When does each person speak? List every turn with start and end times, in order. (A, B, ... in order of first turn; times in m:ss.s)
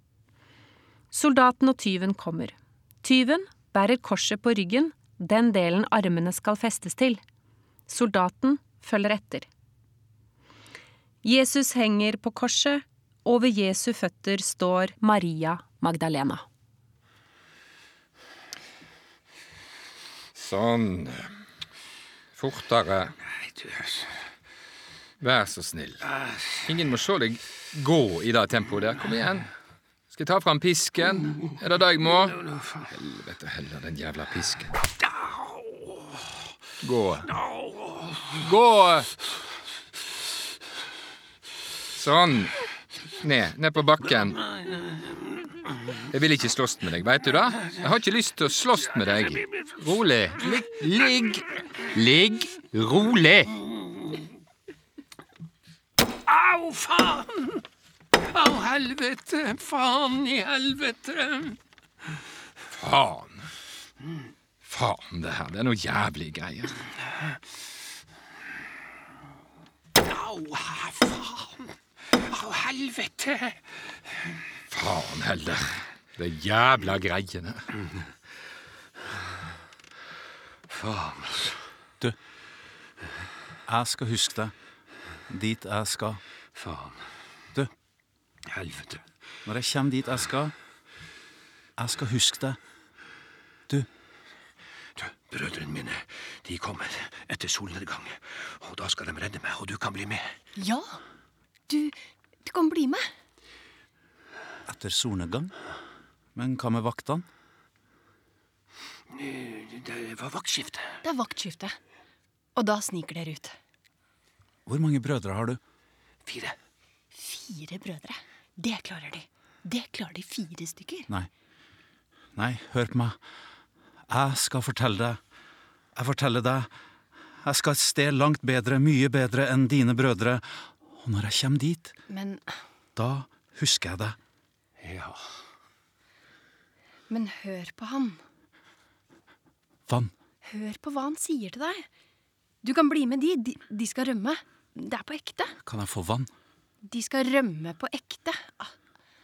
0:01.1-0:07.2 A
0:07.9-0:09.5 A
0:11.2-0:16.4 A
0:20.3-0:21.4 B
0:22.3-0:23.2 B
0:25.2-0:29.5 B
0:30.1-0:34.8 B
0:36.8-0:37.3 B
0:38.3-0:39.1 B
0:41.9-0:42.6 B
0:43.2-0:44.5 B
0:46.1-0:53.6 B
0:56.4-0:57.5 C
0:58.3-1:01.6 C
1:02.7-1:03.3 B
1:04.6-1:06.8 B
1:10.0-1:11.5 C
1:12.1-1:13.6 C
1:14.7-1:17.7 B
1:20.7-1:21.6 C
1:23.7-1:24.5 D
1:25.3-1:26.2 D
1:26.6-1:27.0 C
1:28.4-1:29.0 C
1:29.4-1:30.5 D
1:31.8-1:32.6 D
1:35.0-1:40.4 C
1:40.6-1:40.9 E
1:41.7-1:43.0 E
1:44.6-1:45.5 D
1:46.3-1:47.2 D
1:49.3-1:51.0 C
1:51.0-1:51.7 E
1:52.5-1:53.6 E
1:54.6-1:55.6 D
1:56.2-1:56.6 C
1:57.1-2:01.1 E
2:02.4-2:03.2 D
2:04.1-2:05.2 D
2:05.9-2:06.7 D
2:07.4-2:11.9 D
2:12.1-2:12.5 E
2:13.0-2:14.2 D
2:14.8-2:15.2 C
2:17.1-2:18.2 E
2:20.4-2:21.8 E
2:22.6-2:25.5 E
2:25.6-2:26.3 D
2:26.8-2:28.7 E